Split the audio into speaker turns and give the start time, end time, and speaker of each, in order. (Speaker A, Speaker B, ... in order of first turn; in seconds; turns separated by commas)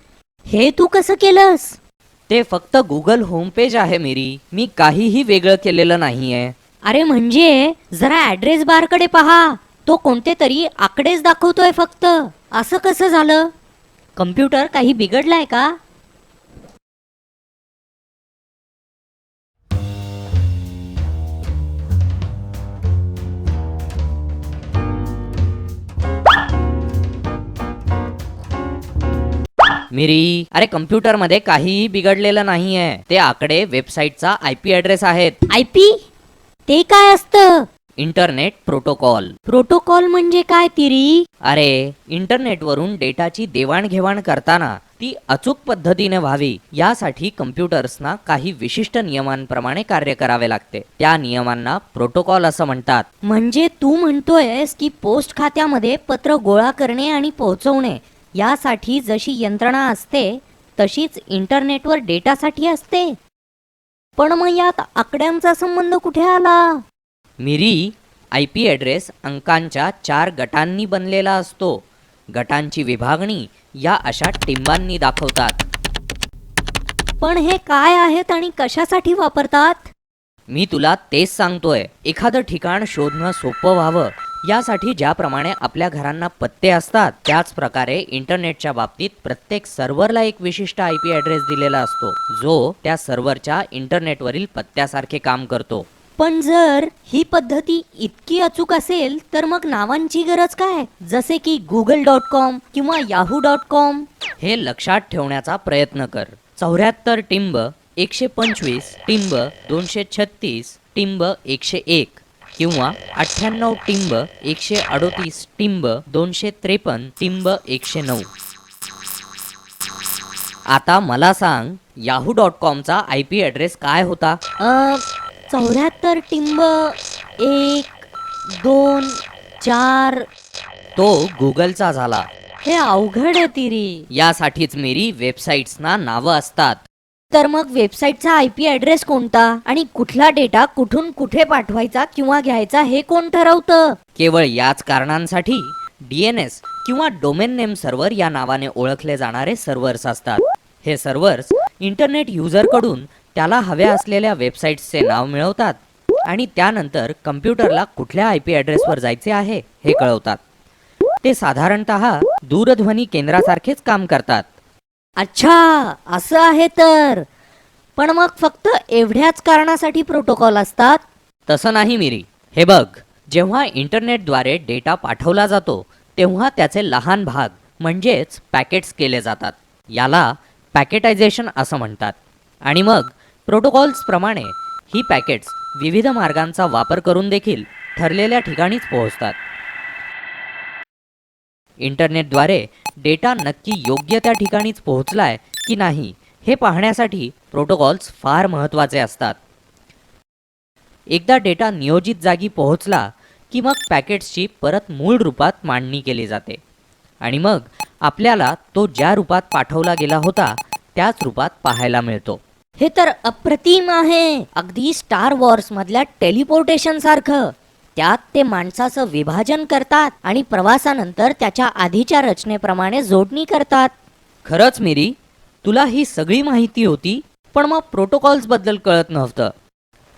Speaker A: 0.5-1.8, Speaker B: 2.3-6.5, Speaker A: 6.8-13.5, Speaker A: 14.2-15.8, Speaker B: 29.9-35.4, Speaker A: 35.5-36.0, Speaker A: 36.7-37.7, Speaker B: 38.0-39.4, Speaker A: 39.5-41.3, Speaker B: 41.4-53.1, Speaker A: 53.2-63.2, Speaker A: 64.2-66.8, Speaker B: 67.4-71.8, Speaker B: 72.3-75.6, Speaker A: 77.2-79.9, Speaker B: 80.5-95.9, Speaker A: 96.2-104.1, Speaker B: 104.4-118.3, Speaker B: 120.7-124.4, Speaker A: 124.6-130.3, Speaker B: 131.0-132.3, Speaker A: 132.7-134.1, Speaker B: 134.1-136.8, Speaker A: 137.3-144.0, Speaker B: 144.2-160.4, Speaker B: 161.2-164.5, Speaker A: 165.2-167.3, Speaker A: 168.0-171.0, Speaker B: 171.5-189.4, Speaker B: 191.8-199.4, Speaker B: 201.1-206.6, Speaker B: 207.2-212.4, Speaker A: 212.8-223.9, Speaker B: 224.4-229.5